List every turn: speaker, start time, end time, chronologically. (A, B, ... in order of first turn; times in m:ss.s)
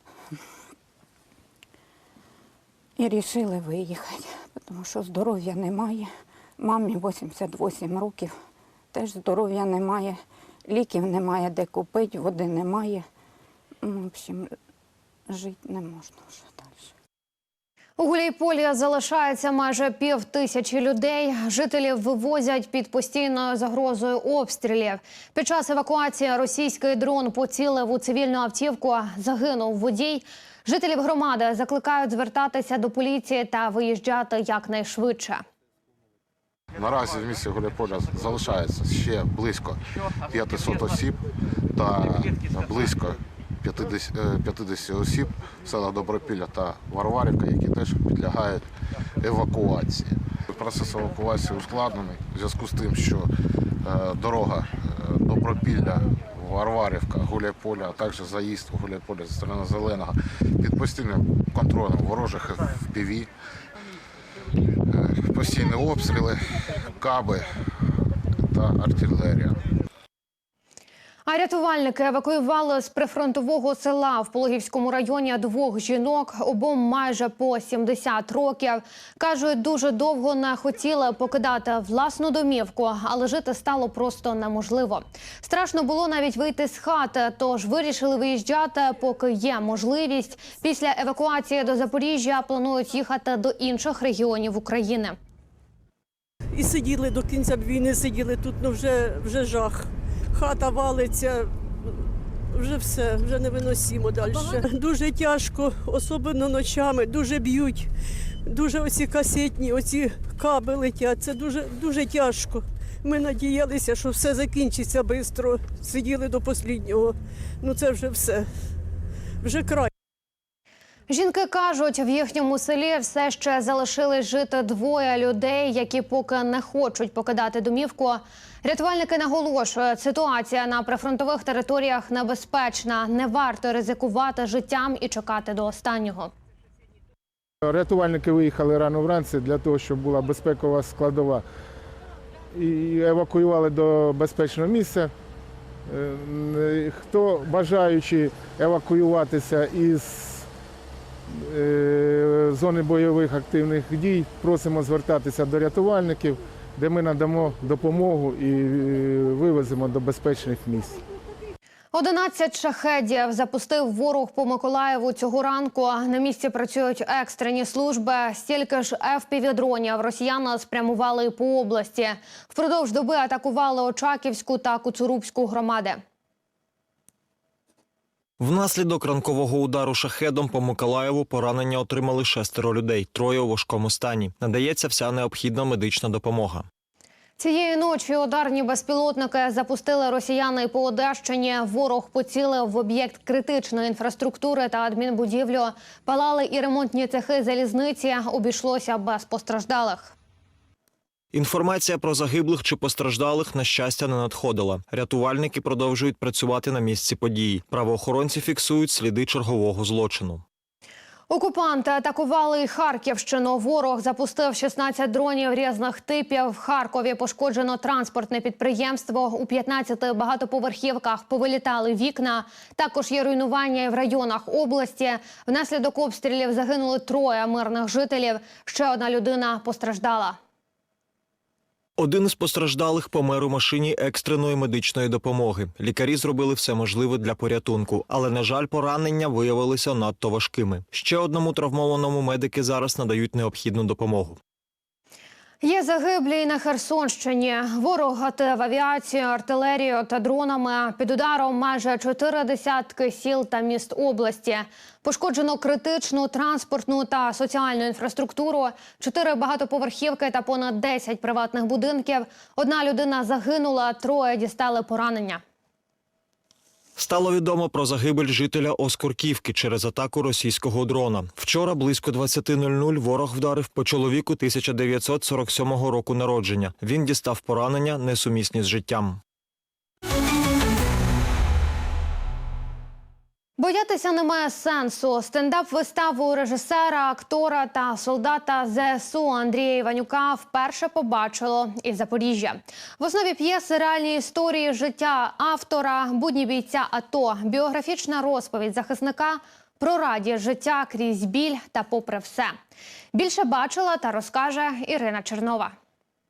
0:03.0-0:08.3 A
0:08.9-0:13.0 A
0:13.8-0:14.5 A
0:15.3-0:16.9 A
0:18.0-0:35.4 B
0:36.7-0:41.2 C
0:41.7-0:48.7 C
0:49.2-0:53.3 C
0:53.8-1:03.3 C
1:04.9-1:07.5 C
1:08.4-1:09.6 C
1:11.3-1:35.2 B
1:36.5-1:41.5 D
1:42.5-1:47.9 D
1:48.5-1:58.5 D
1:59.4-1:59.9 D
2:01.1-2:16.3 B
2:17.6-2:21.4 E
2:22.5-2:25.1 E
2:25.9-2:30.5 E
2:31.3-2:41.0 E
2:41.9-2:56.0 B
2:58.4-3:06.6 F
3:07.4-3:20.1 B
3:21.3-3:30.4 F
3:31.3-3:50.4 B
3:52.0-4:04.4 F
4:05.6-4:25.4 B
4:27.0-4:39.2 F
4:43.6-5:02.5 B
5:03.1-5:05.7 B